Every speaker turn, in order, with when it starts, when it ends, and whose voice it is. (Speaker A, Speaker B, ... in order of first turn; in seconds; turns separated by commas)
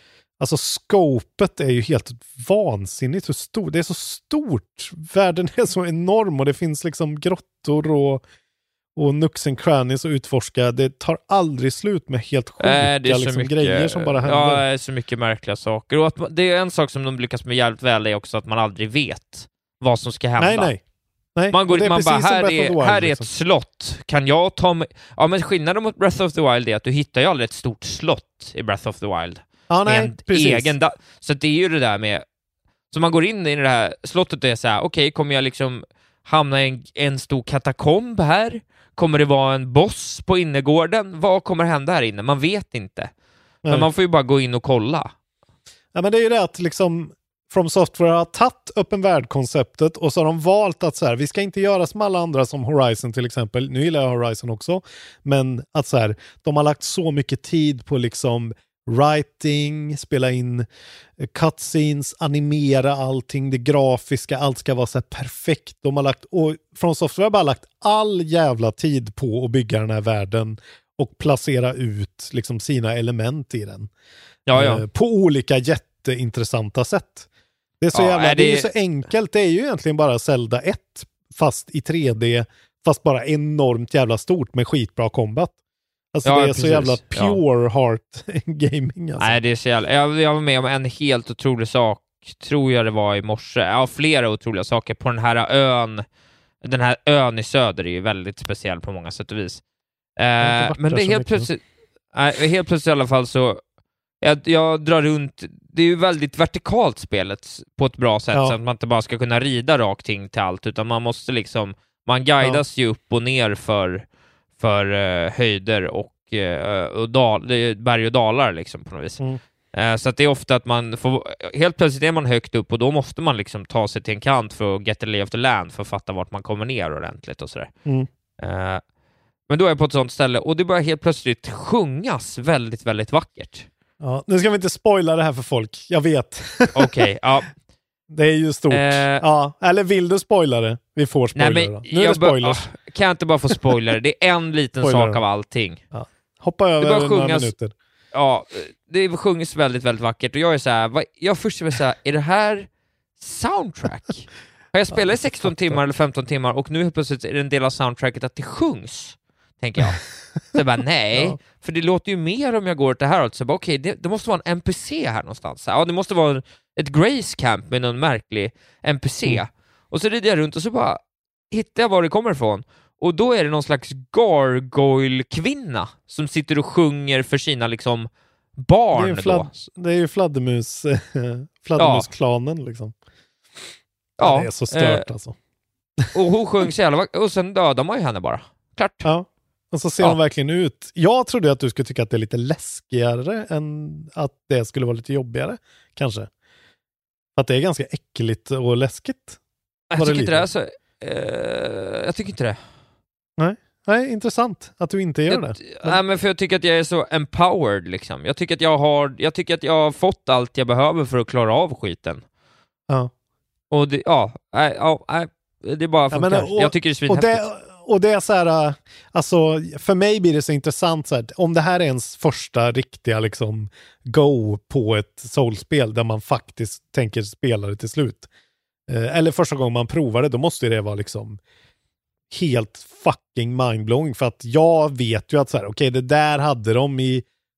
Speaker A: 0.4-8.2, Speaker A: 8.9-14.6, Speaker B: 12.6-20.7, Speaker A: 20.4-20.8, Speaker A: 21.4-23.3, Speaker B: 21.5-32.2, Speaker A: 29.7-30.7, Speaker B: 32.9-43.1, Speaker B: 43.7-45.1, Speaker A: 45.9-60.7, Speaker A: 61.2-73.9, Speaker B: 74.5-74.8, Speaker A: 74.5-77.3, Speaker A: 77.8-85.5, Speaker B: 77.9-78.7, Speaker A: 86.1-89.3, Speaker B: 86.2-87.4, Speaker B: 89.2-96.0, Speaker B: 96.6-99.6, Speaker B: 100.2-101.6, Speaker A: 100.4-101.5, Speaker B: 102.1-103.6, Speaker B: 104.2-114.0, Speaker B: 114.6-119.2, Speaker B: 119.7-127.7, Speaker B: 128.4-128.8, Speaker B: 129.5-133.7, Speaker A: 134.0-137.1, Speaker B: 136.7-137.5, Speaker A: 138.1-142.7, Speaker B: 138.7-139.2, Speaker B: 141.3-145.8, Speaker A: 144.8-145.2, Speaker A: 145.9-147.7, Speaker B: 146.8-147.5, Speaker B: 148.1-152.7, Speaker B: 153.2-171.0, Speaker A: 154.9-155.8, Speaker B: 171.5-179.5, Speaker A: 178.9-182.9, Speaker B: 181.8-182.1, Speaker B: 184.2-185.0, Speaker A: 184.2-185.3, Speaker B: 186.1-189.1, Speaker A: 189.0-196.3, Speaker A: 197.3-199.4, Speaker B: 199.9-202.6, Speaker A: 200.0-200.4, Speaker A: 203.4-206.0, Speaker B: 205.3-212.2, Speaker B: 213.7-217.4, Speaker A: 216.1-228.3, Speaker A: 228.9-231.4, Speaker A: 232.3-237.2